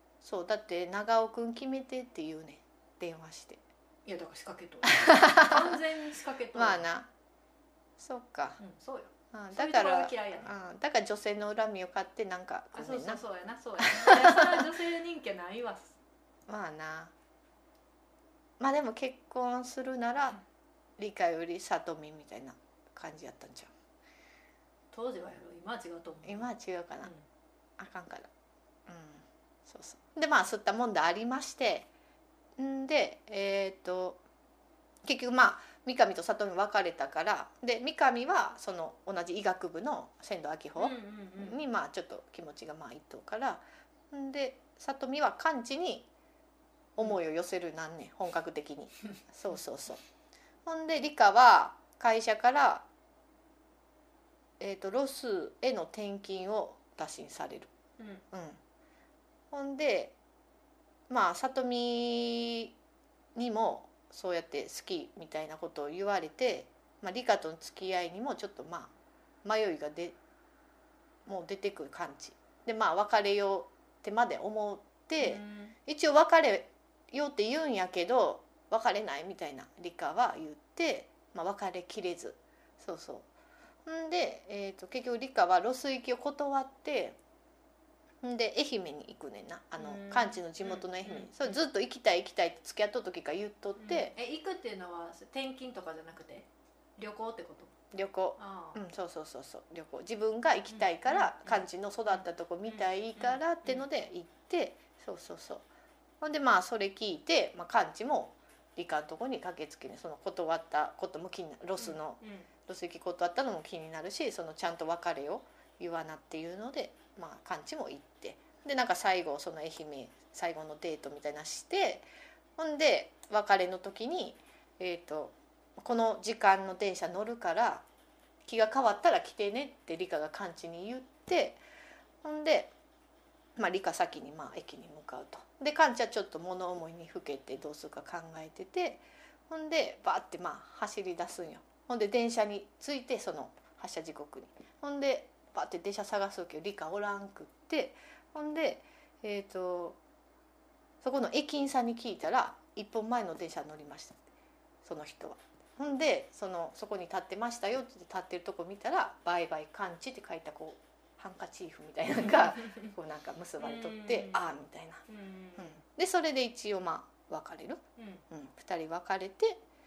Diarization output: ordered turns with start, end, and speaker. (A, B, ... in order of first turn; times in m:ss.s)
0:00.2-0:03.6 A
0:04.0-0:06.8 B
0:04.8-0:05.8 A
0:06.5-0:07.1 A
0:08.0-0:08.6 A
0:08.6-0:10.5 B
0:09.3-0:13.2 A
0:12.7-0:16.0 B
0:13.8-0:14.6 A
0:16.5-0:17.1 A
0:18.6-0:20.4 A
0:21.0-0:23.7 A
0:24.9-0:26.5 B
0:26.2-0:27.1 A
0:27.8-0:28.3 A
0:28.9-0:31.9 A
0:32.6-0:34.2 A
0:35.0-0:46.1 A
0:40.8-0:41.6 B
0:47.0-0:50.0 A
0:50.6-0:52.8 A
0:54.6-0:57.7 A
0:58.0-0:58.2 B
0:58.3-0:58.6 A
0:59.5-1:00.1 A
1:01.1-1:02.7 A
1:03.3-1:08.9 A
1:09.4-1:10.2 A
1:11.2-1:23.2 A
1:15.2-1:15.7 B
1:23.8-1:27.2 A
1:28.2-1:34.1 A
1:29.8-1:31.6 B
1:33.8-1:37.7 B
1:37.9-1:45.6 A
1:38.4-1:38.8 B
1:40.7-1:43.9 B
1:46.2-2:02.0 A
1:51.8-1:52.5 B
2:02.6-2:07.8 A
2:08.4-2:11.6 A
2:12.2-2:12.7 A
2:13.6-2:30.0 A
2:31.0-2:34.2 A
2:34.8-2:45.0 A
2:43.6-2:44.5 B
2:45.1-2:45.8 B
2:45.6-2:49.6 A
2:48.0-2:48.2 B